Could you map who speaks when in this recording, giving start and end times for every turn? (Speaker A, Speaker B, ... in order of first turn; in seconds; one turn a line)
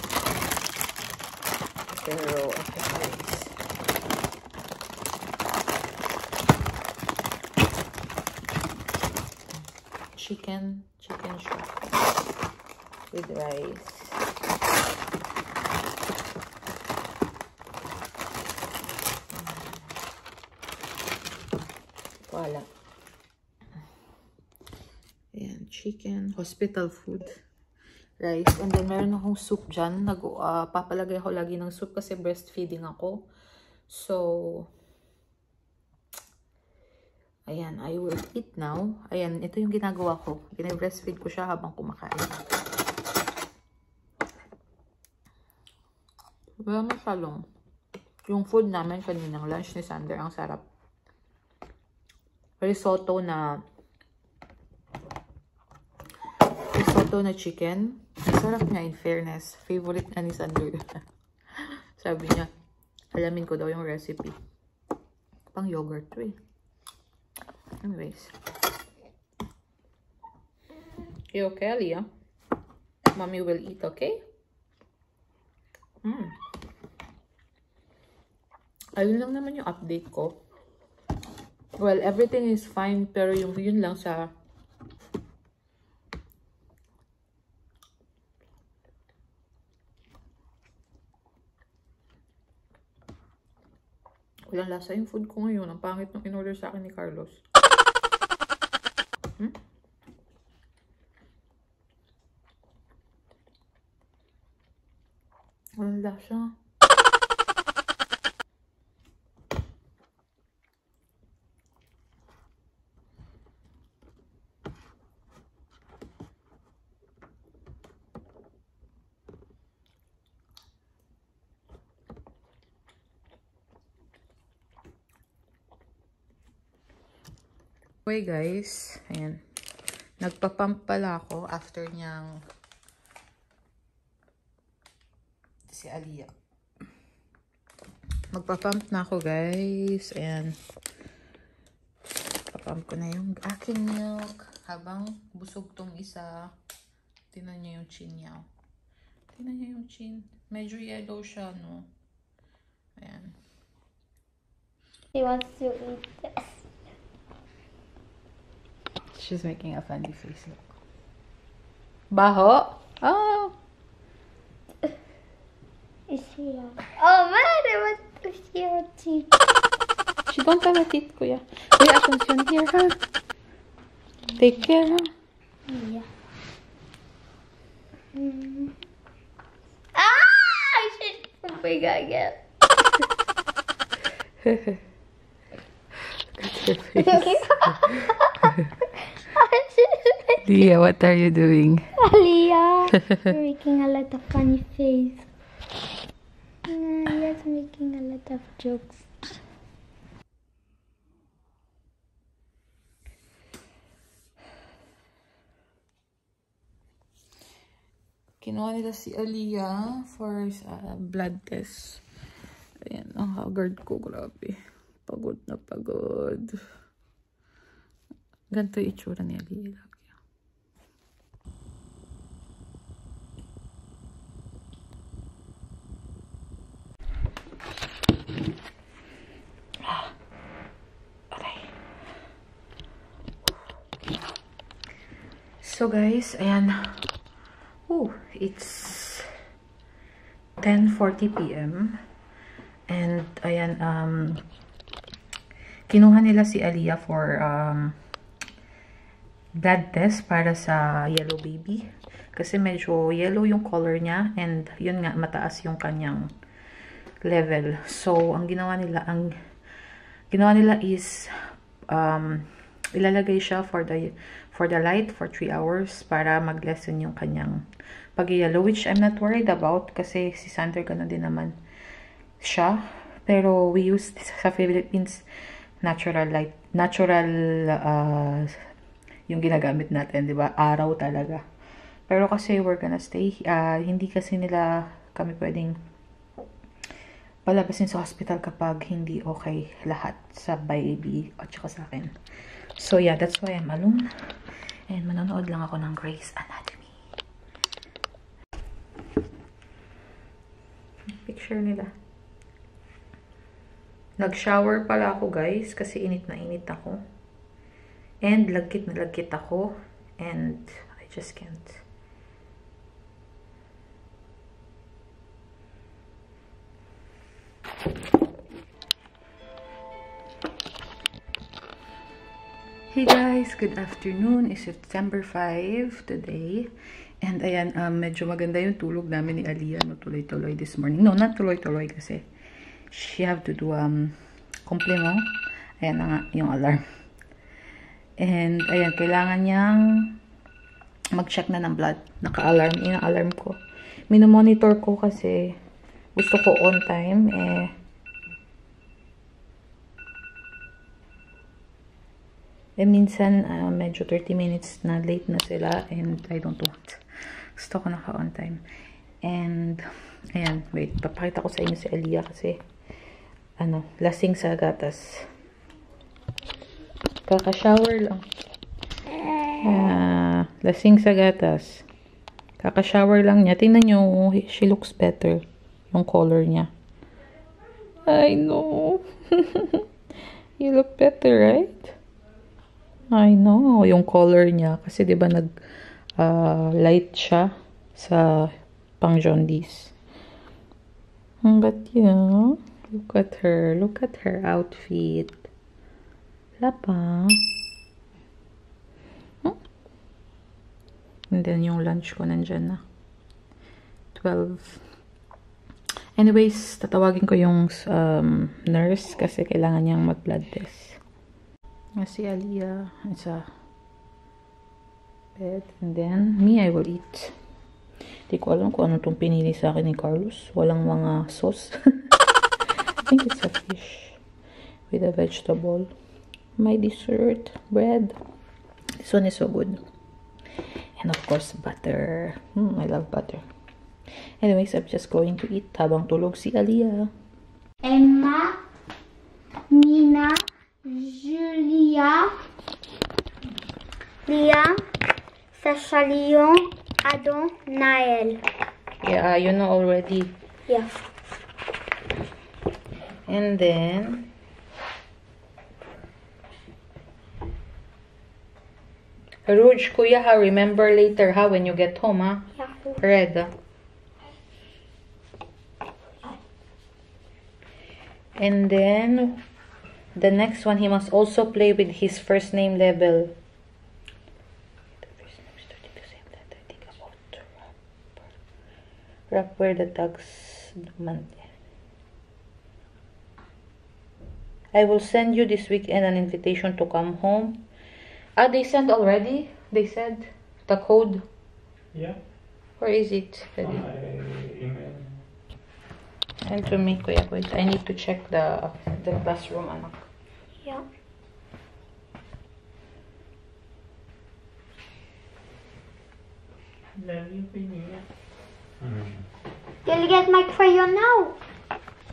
Speaker A: 1.9-3.5
Speaker A: 10.2-11.8
Speaker A: 13.1-14.2
Speaker A: 22.3-22.7
Speaker A: 25.3-27.4
Speaker A: 28.2-33.2
Speaker A: 33.9-34.7
Speaker A: 37.5-42.5
Speaker A: 46.6-47.5
Speaker A: 48.2-50.6
Speaker A: 52.6-53.6
Speaker A: 56.7-61.0
Speaker A: 62.0-62.5
Speaker A: 63.1-64.4
Speaker A: 65.5-66.3
Speaker A: 67.8-68.3
Speaker A: 71.3-72.1
Speaker A: 73.1-74.2
Speaker A: 76.0-76.3
Speaker A: 79.0-80.4
Speaker A: 81.8-84.3
Speaker A: 94.5-97.4
Speaker A: 105.8-106.5
Speaker A: 128.1-129.4
Speaker A: 130.2-132.4
Speaker A: 135.7-136.3
Speaker A: 138.3-140.6
Speaker A: 142.5-146.5
Speaker A: 147.3-148.5
Speaker A: 149.3-151.9
Speaker A: 153.0-153.4
Speaker B: 155.2-156.6
Speaker A: 159.1-160.6
Speaker A: 162.1-163.5
Speaker B: 166.1-169.3
Speaker A: 170.3-173.0
Speaker A: 174.3-175.1
Speaker B: 175.7-176.1
Speaker B: 178.2-178.8
Speaker B: 179.9-182.4
Speaker A: 184.4-184.8
Speaker A: 186.3-188.7
Speaker B: 187.0-188.5
Speaker B: 189.2-190.4
Speaker A: 190.4-191.9
Speaker B: 192.0-195.3
Speaker B: 196.7-199.4
Speaker A: 208.4-212.0
Speaker A: 212.9-216.6
Speaker A: 218.5-220.1
Speaker A: 229.8-230.1
Speaker A: 231.3-231.7
Speaker A: 235.6-237.1
Speaker A: 237.9-239.3
Speaker A: 240.6-242.0
Speaker A: 242.9-244.4
Speaker A: 245.9-248.0
Speaker A: 249.6-256.3
Speaker A: 257.2-259.4
Speaker A: 260.3-261.3
Speaker A: 261.9-267.6
Speaker A: 268.2-271.6
Speaker A: 272.4-275.2
Speaker A: 275.8-278.6
Speaker A: 279.3-281.4
Speaker A: 282.1-285.8
Speaker A: 287.5-292.1
Speaker A: 292.8-294.1
Speaker A: 294.9-296.9
Speaker A: 301.2-301.9
Speaker A: 304.2-307.0
Speaker A: 308.2-311.8
Speaker A: 322.9-332.2
Speaker A: 332.9-334.1
Speaker A: 334.7-335.2
Speaker A: 335.8-336.8
Speaker A: 338.2-340.2
Speaker A: 341.1-343.6
Speaker A: 344.1-345.6
Speaker A: 346.1-347.7
Speaker A: 352.8-357.0
Speaker A: 357.6-358.6
Speaker A: 359.2-359.8
Speaker A: 360.3-362.6
Speaker A: 363.6-365.3
Speaker A: 367.3-368.2
Speaker A: 369.6-371.9
Speaker A: 372.6-376.7
Speaker A: 378.1-379.8
Speaker A: 380.6-381.9
Speaker A: 383.1-385.5
Speaker A: 386.2-389.9
Speaker A: 391.4-395.5
Speaker A: 396.6-397.4
Speaker A: 401.3-402.8
Speaker A: 404.1-404.8
Speaker A: 406.2-411.0
Speaker A: 412.0-413.5
Speaker A: 415.4-417.3
Speaker A: 418.3-421.8
Speaker A: 423.1-424.2
Speaker A: 424.9-425.9
Speaker A: 426.6-428.2
Speaker A: 429.0-429.8
Speaker A: 431.0-433.4
Speaker A: 434.4-437.1
Speaker B: 437.8-438.6
Speaker B: 439.7-442.4
Speaker B: 444.3-444.8
Speaker B: 445.5-448.4
Speaker A: 449.0-450.3
Speaker A: 453.3-454.3
Speaker A: 459.5-463.5
Speaker B: 462.6-463.0
Speaker A: 468.4-469.4
Speaker A: 470.2-473.3
Speaker A: 475.0-477.6
Speaker A: 479.3-481.5
Speaker A: 484.7-487.6
Speaker A: 488.4-491.2
Speaker C: 491.9-492.2
Speaker A: 492.8-493.8
Speaker C: 493.6-495.2
Speaker A: 496.5-500.1
Speaker C: 507.0-508.1
Speaker C: 508.8-509.3
Speaker B: 509.9-511.4